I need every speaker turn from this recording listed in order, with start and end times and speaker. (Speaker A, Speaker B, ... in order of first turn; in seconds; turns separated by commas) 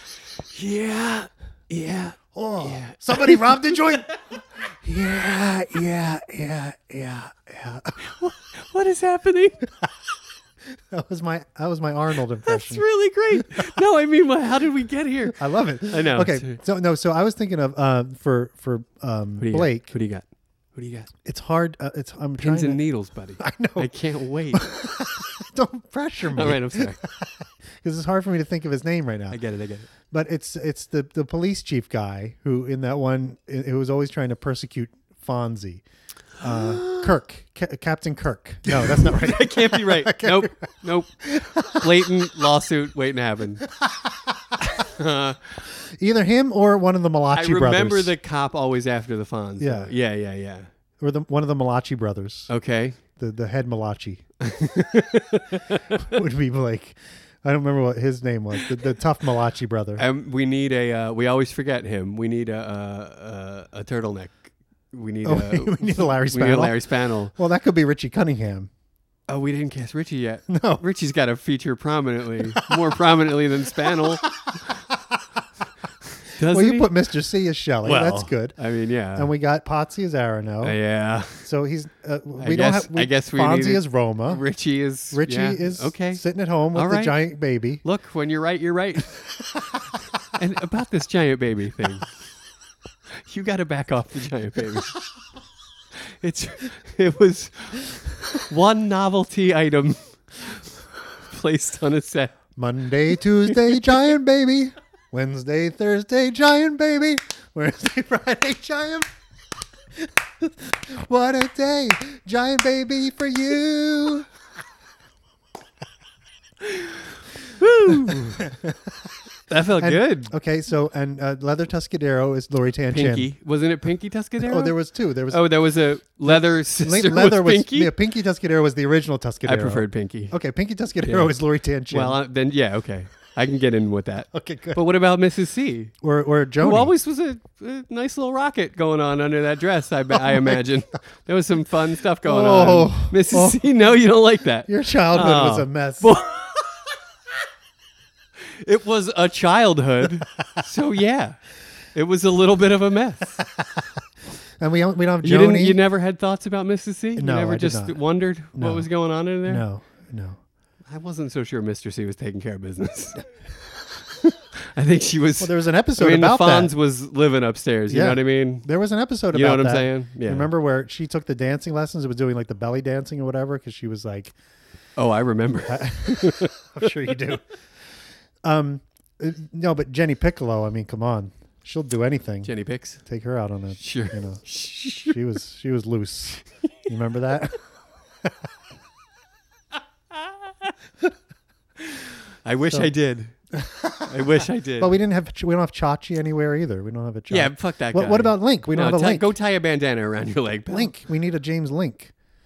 Speaker A: 0.5-4.4, Speaker B: 2.3-8.1, Speaker A: 8.0-9.6, Speaker B: 10.9-13.7, Speaker A: 12.4-16.6, Speaker B: 15.2-19.9, Speaker A: 19.4-21.1, Speaker B: 21.2-22.8, Speaker A: 22.4-24.6, Speaker B: 23.4-23.9, Speaker B: 24.5-29.4, Speaker A: 26.3-27.0, Speaker A: 29.3-29.9, Speaker B: 30.1-35.8, Speaker B: 36.4-40.7, Speaker A: 36.4-37.1, Speaker A: 38.6-43.6, Speaker B: 41.2-42.1, Speaker B: 43.8-44.5, Speaker A: 44.6-45.5, Speaker B: 45.7-48.1, Speaker A: 47.3-50.7, Speaker B: 49.6-49.9, Speaker B: 51.0-52.5, Speaker A: 52.5-53.0, Speaker B: 53.1-54.2, Speaker A: 54.4-56.0, Speaker B: 55.9-60.0, Speaker A: 60.0-67.3, Speaker B: 65.2-66.8, Speaker B: 67.3-68.7, Speaker A: 69.3-74.7, Speaker B: 70.5-70.8, Speaker B: 72.5-72.8, Speaker B: 73.8-75.2, Speaker A: 76.2-76.9, Speaker B: 76.4-78.6, Speaker A: 77.8-79.3, Speaker B: 79.2-80.8, Speaker A: 80.6-81.5, Speaker B: 81.4-84.4, Speaker A: 82.4-86.2, Speaker B: 85.1-87.8, Speaker A: 86.7-87.2, Speaker A: 87.8-89.2, Speaker A: 90.3-92.1, Speaker A: 93.2-95.0, Speaker A: 96.2-100.7, Speaker A: 101.2-102.3, Speaker B: 102.5-109.1, Speaker A: 103.5-103.8, Speaker B: 110.0-114.3, Speaker A: 116.7-117.0, Speaker A: 117.5-118.5, Speaker B: 118.0-119.1, Speaker A: 119.5-120.3, Speaker B: 119.8-123.3, Speaker A: 122.9-124.7, Speaker B: 124.4-125.5, Speaker A: 125.3-127.9, Speaker B: 126.2-132.2, Speaker A: 129.4-130.3, Speaker A: 131.0-131.3, Speaker A: 131.9-135.9, Speaker B: 134.3-134.8, Speaker B: 136.0-136.9, Speaker A: 136.6-146.9, Speaker B: 142.2-143.6, Speaker B: 144.7-146.1, Speaker A: 148.6-151.4, Speaker A: 151.9-153.4, Speaker B: 153.4-153.8, Speaker B: 154.6-155.8, Speaker A: 155.2-159.6, Speaker B: 157.2-158.0, Speaker B: 158.5-158.9, Speaker B: 159.4-160.4, Speaker A: 160.9-163.2, Speaker A: 164.1-168.7, Speaker B: 165.4-166.7, Speaker B: 167.9-174.3, Speaker A: 169.3-170.5, Speaker A: 175.0-177.1, Speaker B: 175.7-177.4, Speaker B: 178.4-182.5, Speaker A: 182.4-183.0, Speaker B: 183.0-187.6, Speaker A: 183.8-185.2, Speaker A: 191.8-193.3, Speaker B: 193.5-199.3, Speaker A: 194.0-195.0, Speaker A: 197.3-200.9, Speaker B: 200.7-202.1